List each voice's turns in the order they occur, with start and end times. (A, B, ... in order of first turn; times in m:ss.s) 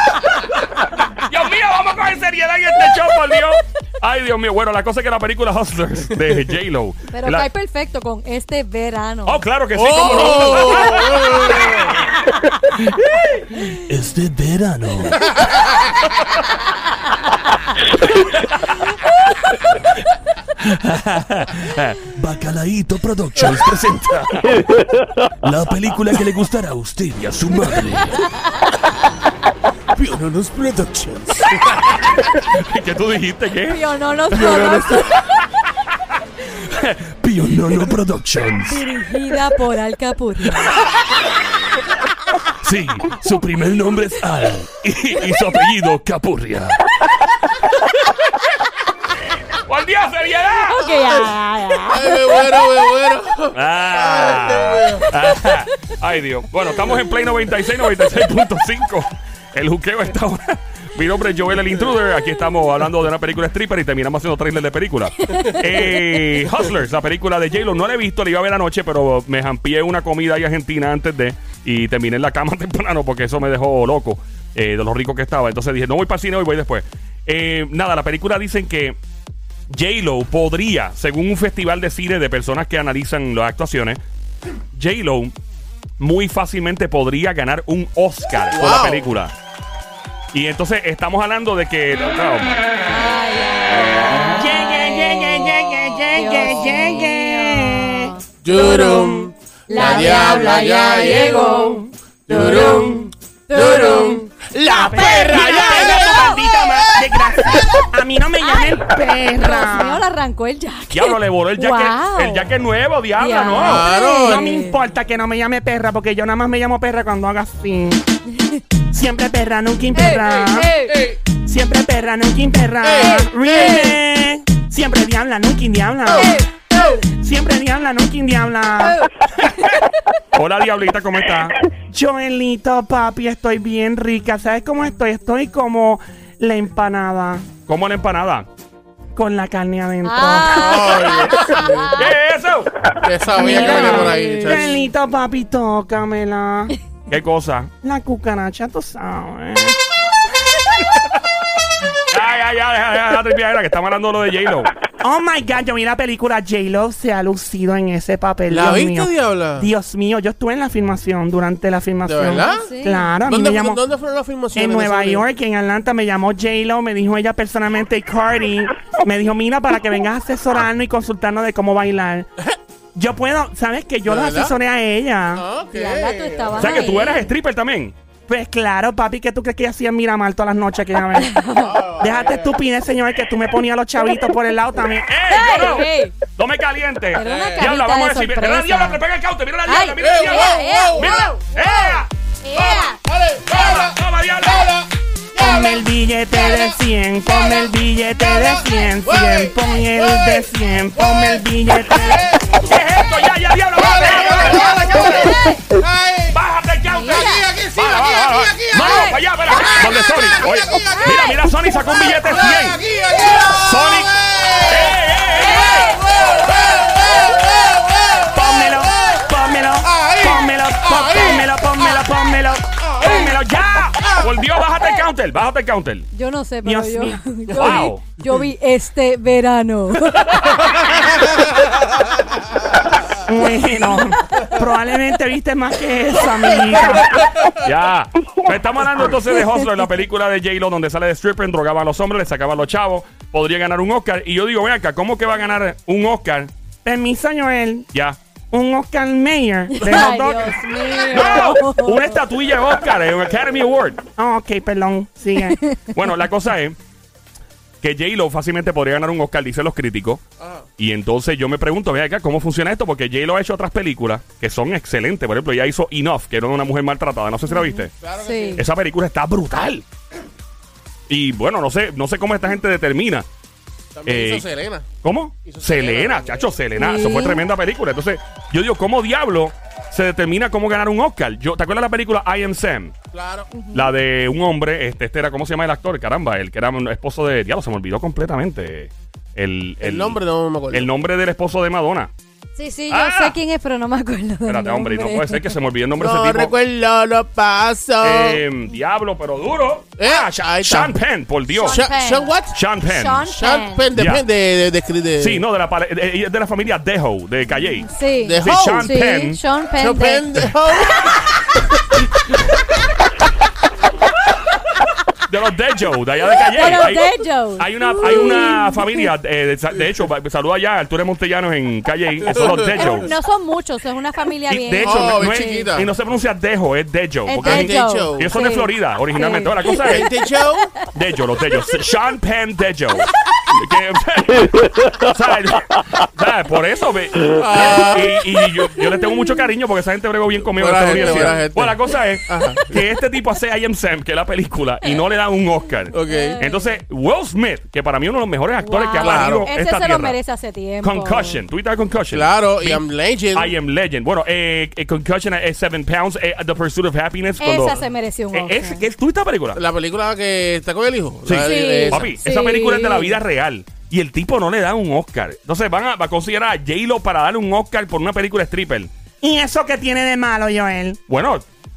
0:01.2-0:07.5 A
0:07.1-0:09.4 B
0:09.2-0:11.9 A
0:09.7-0:11.9 C
0:10.0-0:10.3 B
0:12.8-0:13.6 A
0:13.9-0:15.2 D
0:20.7-0:22.0 A
0:22.1-0:24.6 D
0:25.4-0:28.2 D
0:29.9-0:31.8 C
0:31.9-0:35.4 A
0:33.6-0:35.1 B
0:36.6-0:37.0 A
0:37.1-0:38.9 D
0:38.6-0:40.7 B
0:42.6-0:46.8 D
0:45.0-0:45.8 A
0:49.6-0:50.8 A
0:50.7-0:52.2 B
0:51.9-0:55.1 C
0:53.5-1:19.0 A
1:19.7-1:24.0 A
1:24.7-1:25.3 A
1:26.0-1:29.3 A
1:28.5-1:29.1 C
1:30.3-1:32.6 A
1:32.9-1:38.2 B
1:34.3-1:39.2 E
1:38.4-1:41.6 C
1:39.7-1:44.2 B
1:39.8-1:40.3 E
1:41.4-1:41.8 E
1:42.3-1:47.8 C
1:44.7-1:50.0 E
1:48.4-1:48.8 B
1:49.4-1:52.5 B
1:50.9-1:53.8 A
1:53.2-1:54.8 B
1:53.6-1:54.5 C
1:54.2-1:58.0 E
1:58.9-2:00.7 E
1:59.9-2:01.0 B
2:00.9-2:01.2 C
2:01.3-2:06.4 E
2:02.8-2:04.0 C
2:03.0-2:04.0 B
2:06.2-2:07.0 B
2:06.9-2:09.0 E
2:08.8-2:09.1 B
2:10.3-2:11.6 A
2:11.9-2:17.5 E
2:17.7-2:18.5 A
2:19.2-2:21.3 E
2:20.0-2:21.0 B
2:20.5-2:22.0 C
2:21.6-2:22.1 B
2:21.9-2:22.7 A
2:23.0-2:24.8 C
2:23.3-2:24.8 B
2:23.3-2:26.7 E
2:27.1-2:27.7 A
2:27.8-2:29.8 E
2:32.1-2:34.7 A
2:35.0-2:43.8 E
2:38.5-2:39.7 C
2:42.0-2:45.2 C
2:42.4-2:43.1 B
2:44.5-2:52.3 E
2:52.9-2:55.4 E
2:54.0-2:54.6 C
2:55.3-2:56.8 C
2:55.7-2:57.3 B
2:56.6-2:57.9 A
2:58.3-3:05.8 E
3:01.2-3:01.7 B
3:01.5-3:02.6 C
3:05.1-3:12.8 A
3:05.3-3:06.1 B
3:07.1-3:07.7 C
3:07.1-3:09.0 B
3:09.6-3:13.0 B
3:10.0-3:11.4 C
3:13.0-3:13.9 C
3:13.5-3:14.7 A
3:14.4-3:16.7 C
3:15.4-3:22.2 E
3:17.3-3:22.6 C
3:22.6-3:25.0 A
3:23.7-3:26.4 C
3:26.3-3:27.2 A
3:26.9-3:27.4 B
3:27.0-3:39.2 C
3:27.7-3:32.8 A
3:28.8-3:29.2 B
3:33.4-3:35.9 A
3:35.4-3:36.0 B
3:38.3-3:42.7 E
3:39.8-3:41.5 C
3:42.9-3:43.3 C
3:43.0-3:46.1 A
3:46.1-3:50.8 B
3:46.6-3:47.4 E
3:47.5-3:48.0 A
3:50.7-3:51.1 C
3:53.2-3:57.4 E
3:57.6-4:06.5 A
4:06.8-4:07.8 E
4:07.9-4:08.2 A
4:08.5-4:10.6 E
4:09.8-4:12.1 B
4:11.1-4:14.0 A
4:14.2-4:15.6 E
4:15.8-4:16.8 A
4:17.8-4:20.2 A
4:20.4-4:20.7 C
4:20.8-4:27.9 A
4:27.5-4:28.6 B
4:28.0-4:28.7 C
4:28.6-4:29.8 A
4:31.1-4:33.2 A
4:33.9-4:34.9 C
4:34.0-4:34.5 A
4:35.0-4:42.9 A
4:35.4-4:36.6 C
4:36.7-4:37.4 B
4:43.1-4:43.5 C
4:43.5-4:43.9 B
4:43.7-4:50.2 A
4:49.8-4:50.9 C
4:50.7-4:52.1 A
4:52.6-4:55.6 B
4:52.9-4:53.4 A
4:54.4-4:56.5 A
4:56.0-4:58.4 C
4:58.0-5:01.8 A
5:00.0-5:01.0 C
5:01.5-5:03.9 B
5:01.6-5:02.6 C
5:02.5-5:03.3 A
5:03.3-5:05.4 C
5:03.9-5:04.2 A
5:05.2-5:07.9 A
5:07.8-5:10.4 B
5:08.2-5:09.0 C
5:08.4-5:09.4 A
5:09.8-5:11.0 C
5:15.3-5:23.1 A
5:16.4-5:19.1 B
5:22.2-5:23.0 C
5:22.7-5:25.7 B
5:24.5-5:30.1 A
5:24.8-5:25.9 C
5:27.2-5:30.1 B
5:27.4-5:28.3 C
5:29.8-5:30.7 C
5:30.8-5:50.2 A
5:37.2-5:38.2 C
5:40.5-5:42.8 C
5:45.9-5:46.4 C
5:46.1-5:46.8 B
5:48.6-5:51.4 B
5:49.0-5:49.5 C
5:50.8-5:57.8 A
5:52.1-5:53.5 C
5:57.4-5:58.8 B
5:58.3-5:59.6 A
5:59.5-6:02.2 C
6:01.2-6:08.9 A
6:01.4-6:03.2 B
6:09.2-6:11.0 E
6:11.1-6:11.4 A